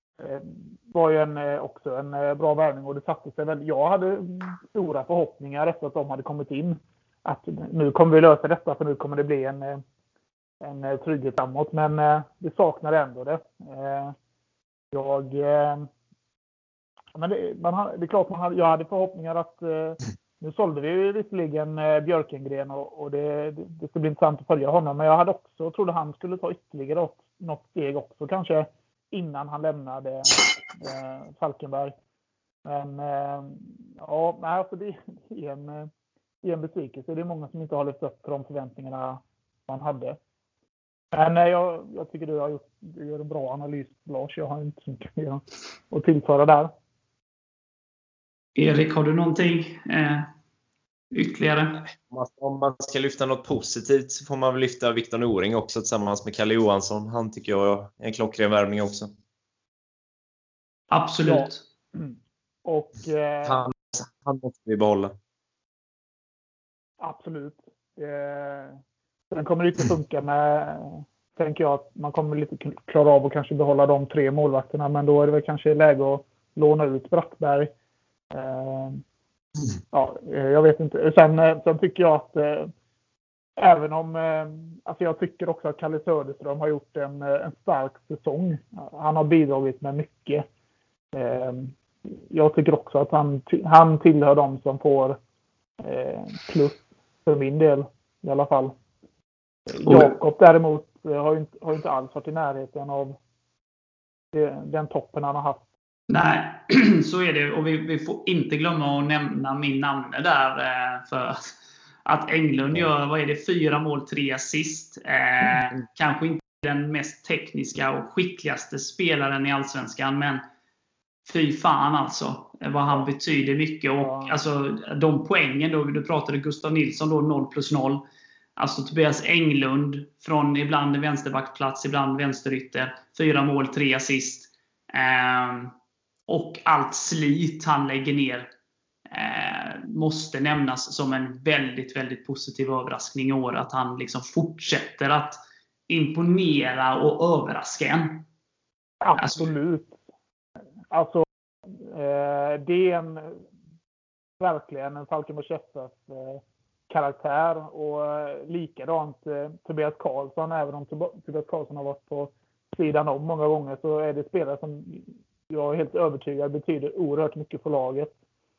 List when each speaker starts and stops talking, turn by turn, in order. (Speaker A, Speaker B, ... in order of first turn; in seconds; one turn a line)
Speaker A: 0.2-9.8
Speaker A: 10.6-14.2
Speaker A: 14.9-15.9
Speaker A: 17.1-31.9
Speaker A: 32.6-35.9
Speaker A: 36.4-40.2
Speaker A: 41.1-46.7
Speaker B: 48.6-50.3
Speaker B: 51.1-51.8
Speaker C: 51.9-59.1
Speaker B: 60.9-61.6
Speaker A: 61.3-63.6
Speaker C: 63.5-65.1
Speaker A: 67.0-68.8
Speaker A: 69.3-77.7
Speaker A: 78.3-79.0
Speaker A: 79.9-82.7
Speaker A: 83.6-90.5
Speaker A: 91.1-91.7
Speaker A: 92.3-95.2
Speaker A: 95.8-98.8
Speaker A: 99.7-103.2
Speaker B: 99.8-100.1
Speaker A: 104.3-105.6
Speaker B: 106.1-111.5
Speaker B: 112.1-120.4
Speaker B: 121.3-128.0
Speaker A: 124.0-124.3
Speaker B: 128.6-135.7
Speaker B: 136.3-138.5
Speaker B: 139.1-148.3
Speaker A: 149.0-150.0
Speaker B: 149.2-149.5
Speaker A: 150.9-153.4
Speaker A: 154.4-168.1